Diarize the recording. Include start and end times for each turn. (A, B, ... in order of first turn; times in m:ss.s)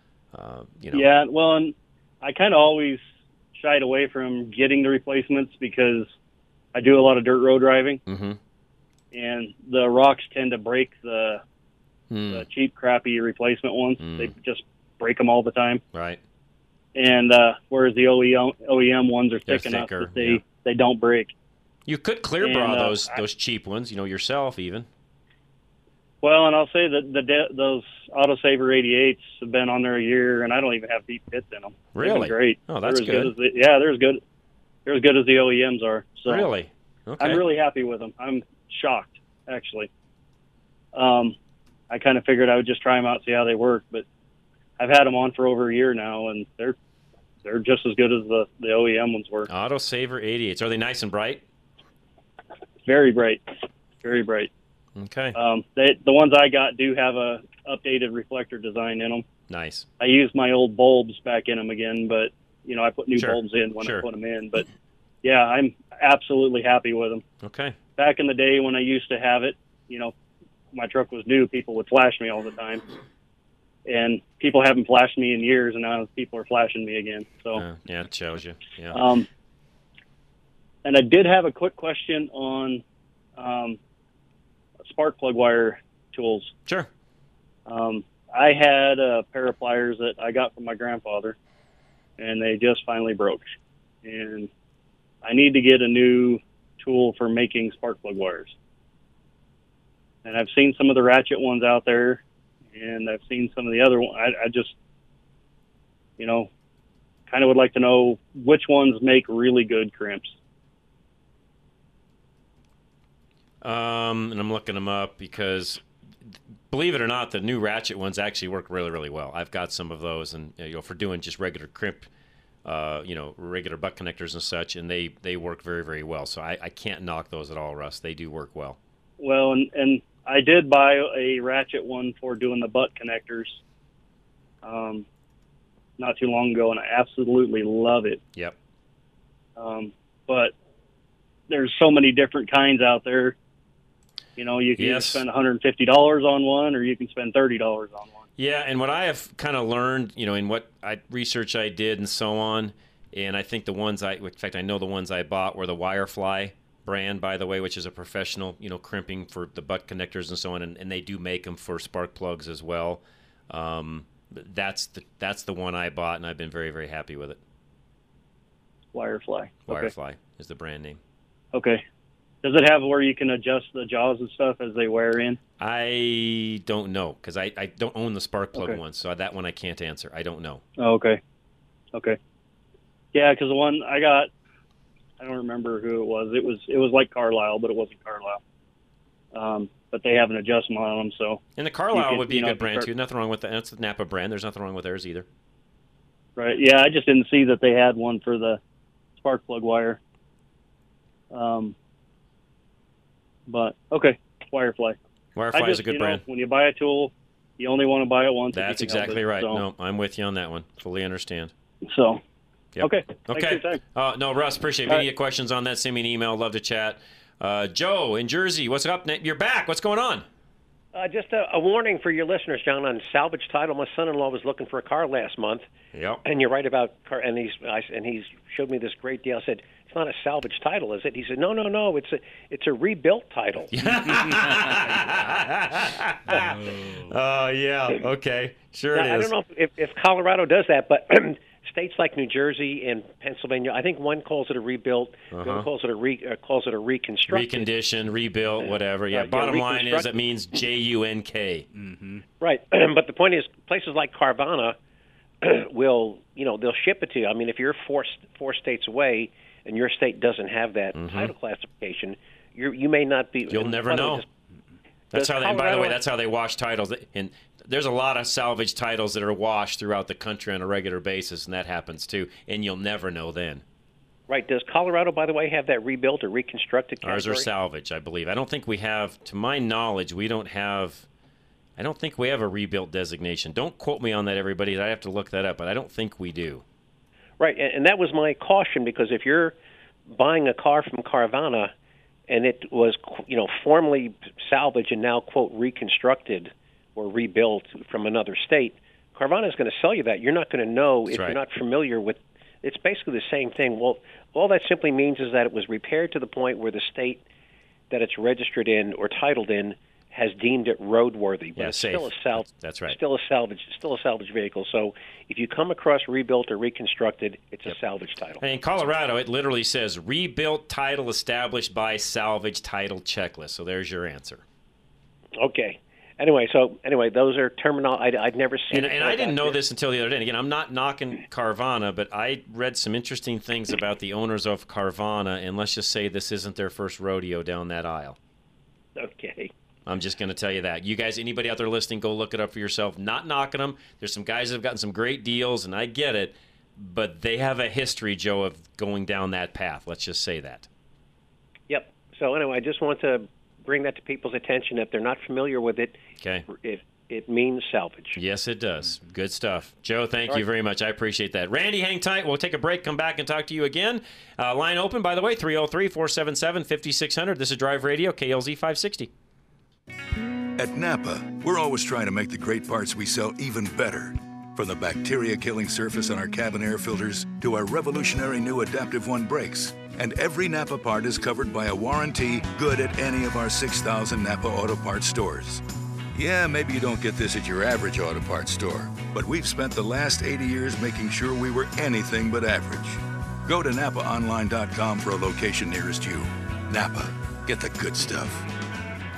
0:00.3-0:01.1 A
0:00.9-0:03.0 B
0:03.5-0:06.1 B
0:06.7-0:08.0 B
0:08.0-0:08.4 A
0:09.1-0:11.4 B
0:12.1-0:12.4 A
0:12.3-0:15.8 B
0:14.0-0:14.3 A
0:15.9-0:16.2 A
0:16.9-0:21.3 B
0:19.4-0:20.4 A
0:21.8-0:24.9 A
0:22.4-0:23.2 B
0:26.2-0:34.2 B
0:31.9-0:33.3 A
0:34.8-0:36.5 B
0:36.2-0:37.4 A
0:37.2-0:39.9 B
0:40.9-0:41.3 B
0:41.9-0:44.0 B
0:44.8-0:46.8 B
0:47.4-0:49.5 B
0:49.5-0:51.4 A
0:52.8-0:53.5 B
0:54.0-0:54.5 B
0:55.0-0:55.4 A
0:55.3-0:59.2 B
0:59.5-0:59.8 A
1:00.0-1:04.6 B
1:03.1-1:04.1 A
1:05.2-1:07.2 B
1:07.4-1:07.8 A
1:08.0-1:10.1 B
1:10.7-1:12.8 B
1:13.8-1:17.6 B
1:17.5-1:19.0 A
1:18.9-1:19.3 B
1:20.8-1:22.8 B
1:23.4-1:23.8 B
1:24.9-1:26.5 B
1:27.7-1:31.3 B
1:32.2-1:33.5 B
1:34.0-1:34.5 B
1:35.2-1:38.5 B
1:40.2-1:42.2 B
1:42.7-1:44.7 B
1:46.2-1:46.5 B
1:47.3-1:50.3 B
1:53.6-2:02.1 A
2:02.6-2:08.8 A
2:09.2-2:13.6 B
2:14.6-2:15.0 B
2:16.0-2:18.2 B
2:19.6-2:20.5 B
2:21.5-2:23.4 B
2:24.4-2:28.2 B
2:24.8-2:25.2 A
2:28.4-2:47.4 A
2:48.9-2:49.9 B
2:49.7-2:51.0 A
2:51.5-2:51.8 B
2:52.4-2:55.4 B
2:55.6-3:00.6 A
3:00.8-3:01.2 B
3:03.1-3:04.3 B
3:05.2-3:08.4 B
3:09.3-3:12.9 B
3:11.6-3:15.2 A
3:16.4-3:18.6 B
3:19.2-3:20.0 B
3:21.3-3:21.7 B
3:23.5-3:25.0 B
3:25.4-3:26.2 A
3:25.5-3:29.6 B
3:28.5-3:31.5 A
3:31.9-3:32.2 B
3:32.7-3:40.2 A
3:32.8-3:33.8 B
3:40.9-3:45.7 C
3:45.9-3:46.2 A
3:46.2-3:53.7 C
3:53.7-3:56.6 A
3:53.9-3:55.2 D
3:56.3-3:57.1 D
3:57.1-3:59.3 A
3:58.9-4:07.7 C
4:05.3-4:05.7 A
4:07.3-4:11.6 A
4:08.6-4:10.1 C
4:11.7-4:12.2 D
4:12.4-4:14.8 C
4:15.4-4:24.3 C
4:20.9-4:21.3 A
4:23.5-4:24.2 A
4:25.1-4:33.6 A
4:34.3-4:37.5 C
4:37.0-4:41.0 A
4:41.8-4:46.6 A
4:47.4-4:49.5 C
4:50.1-4:51.7 C
4:52.3-5:07.2 C
5:01.1-5:01.4 A
5:07.9-5:18.5 C
5:11.6-5:13.0 A
5:18.4-5:24.4 A
5:25.4-5:29.6 C
5:28.7-5:38.2 A
5:39.0-5:39.5 C
5:39.8-5:50.7 A
5:51.7-5:58.2 C
5:56.2-5:56.4 A
5:58.1-6:09.1 A
6:10.6-6:25.6 E
6:26.1-6:38.4 E